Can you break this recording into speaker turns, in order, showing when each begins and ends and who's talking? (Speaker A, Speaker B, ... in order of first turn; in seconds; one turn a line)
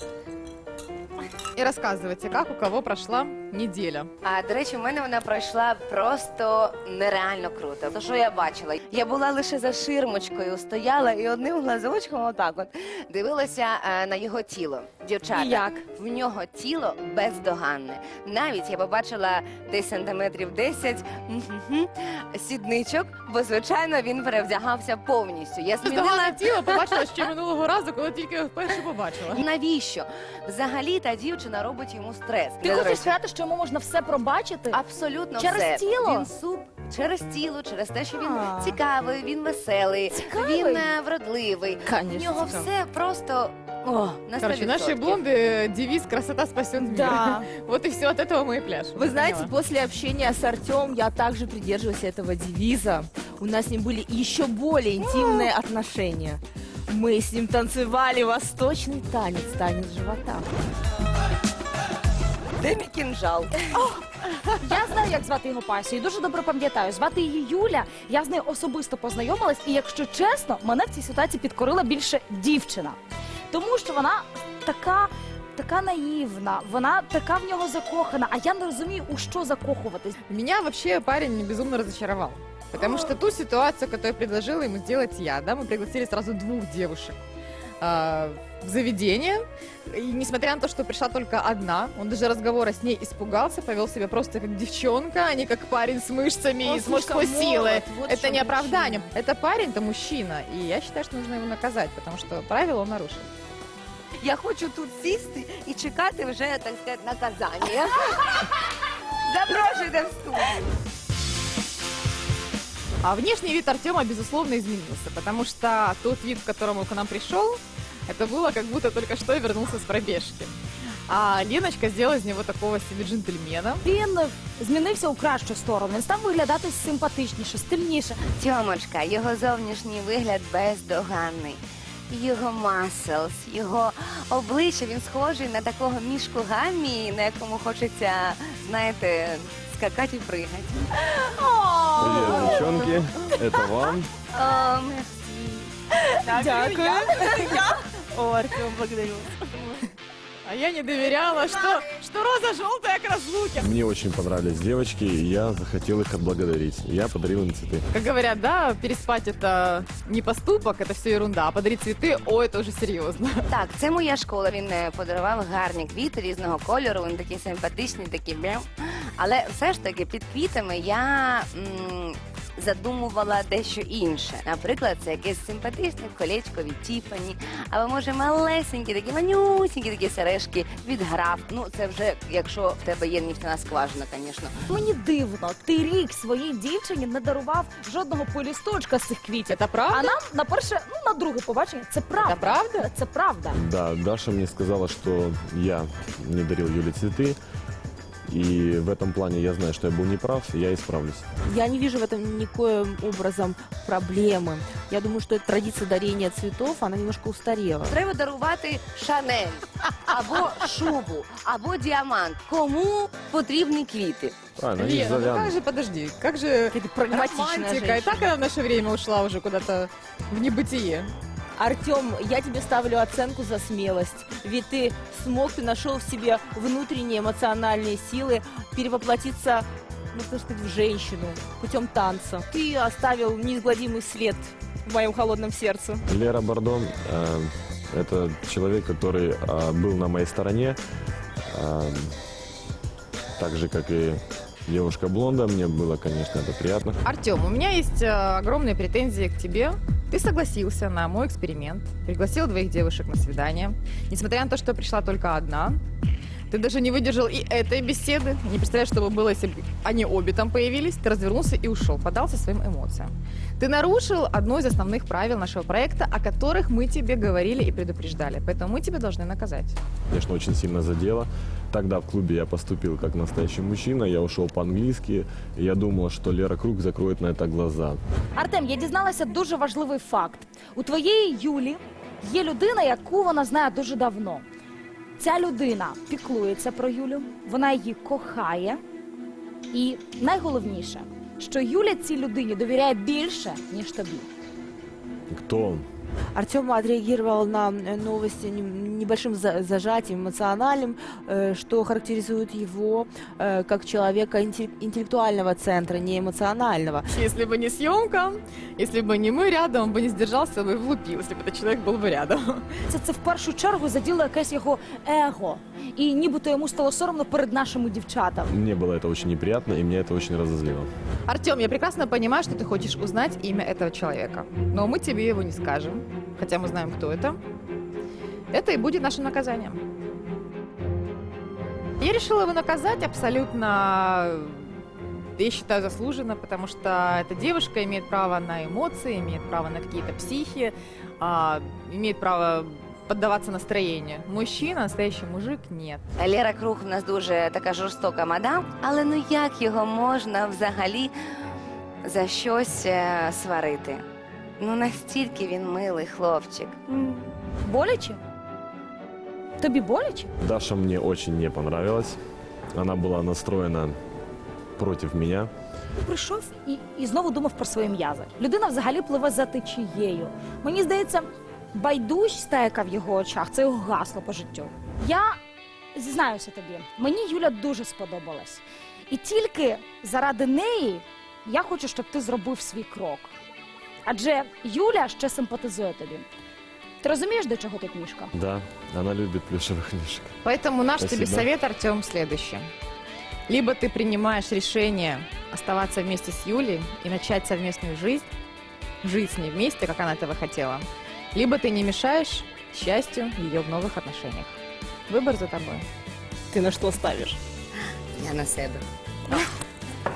Speaker A: 1.6-4.1
Speaker B: 4.2-27.0
Speaker C: 15.3-15.7
Speaker A: 25.8-29.4
Speaker B: 29.4-33.1
Speaker C: 32.6-34.8
Speaker B: 34.7-45.2
Speaker C: 35.4-36.3
Speaker C: 38.2-38.8
Speaker C: 40.1-40.9
Speaker D: 41.9-42.7
Speaker A: 44.4-49.5
Speaker D: 46.8-47.5
Speaker D: 49.0-60.5
Speaker B: 62.6-63.6
Speaker C: 63.7-64.0
Speaker C: 64.6-73.0
Speaker C: 73.5-80.2
Speaker A: 80.3-87.2
Speaker A: 87.8-103.3
Speaker D: 96.6-99.1
Speaker B: 104.2-108.6
Speaker B: 109.3-110.6
Speaker A: 113.0-120.5
Speaker A: 121.1-123.8
Speaker C: 123.8-128.3
Speaker B: 128.3-140.8
Speaker E: 142.0-144.1
Speaker D: 142.2-142.9
Speaker B: 144.3-145.7
Speaker D: 146.2-149.4
Speaker A: 150.5-153.7
Speaker E: 153.6-157.9
Speaker A: 157.9-163.4
Speaker B: 163.5-168.7
Speaker B: 169.2-184.6
Speaker C: 184.7-193.6
Speaker A: 189.5-190.2
Speaker A: 192.2-192.9
Speaker E: 193.6-197.4
Speaker E: 198.3-201.2
Speaker D: 201.5-207.9
Speaker B: 207.9-214.4
Speaker E: 214.6-215.5
Speaker A: 214.8-221.1
Speaker D: 216.7-218.4
Speaker D: 221.6-236.0
Speaker E: 236.1-240.8
Speaker E: 241.5-242.1
Speaker E: 243.4-247.0
Speaker A: 247.1-255.8
Speaker A: 256.5-269.8
Speaker E: 270.1-278.0
Speaker C: 278.4-284.5
Speaker C: 285.2-288.8
Speaker C: 289.7-294.3
Speaker E: 295.3-295.9
Speaker D: 296.4-307.1
Speaker A: 307.1-312.7
Speaker C: 312.9-318.5
Speaker E: 318.5-320.9
Speaker A: 321.3-327.4
Speaker A: 328.5-329.8
Speaker A: 332.0-334.6
Speaker A: 335.4-346.0
Speaker B: 346.2-351.1
Speaker B: 352.0-354.0
Speaker B: 354.6-357.3
Speaker C: 357.6-358.2
Speaker C: 359.6-360.3
Speaker E: 360.4-362.2
Speaker E: 362.8-363.9
Speaker E: 364.8-365.5
Speaker C: 366.0-375.4
Speaker C: 375.9-383.3
Speaker C: 384.1-386.2
Speaker C: 387.0-388.3
Speaker E: 388.4-390.3
Speaker A: 390.4-392.6
Speaker E: 391.0-391.5
Speaker A: 393.5-398.3
Speaker A: 399.0-404.6
Speaker A: 405.1-405.9
Speaker D: 406.6-407.3
Speaker B: 408.1-409.4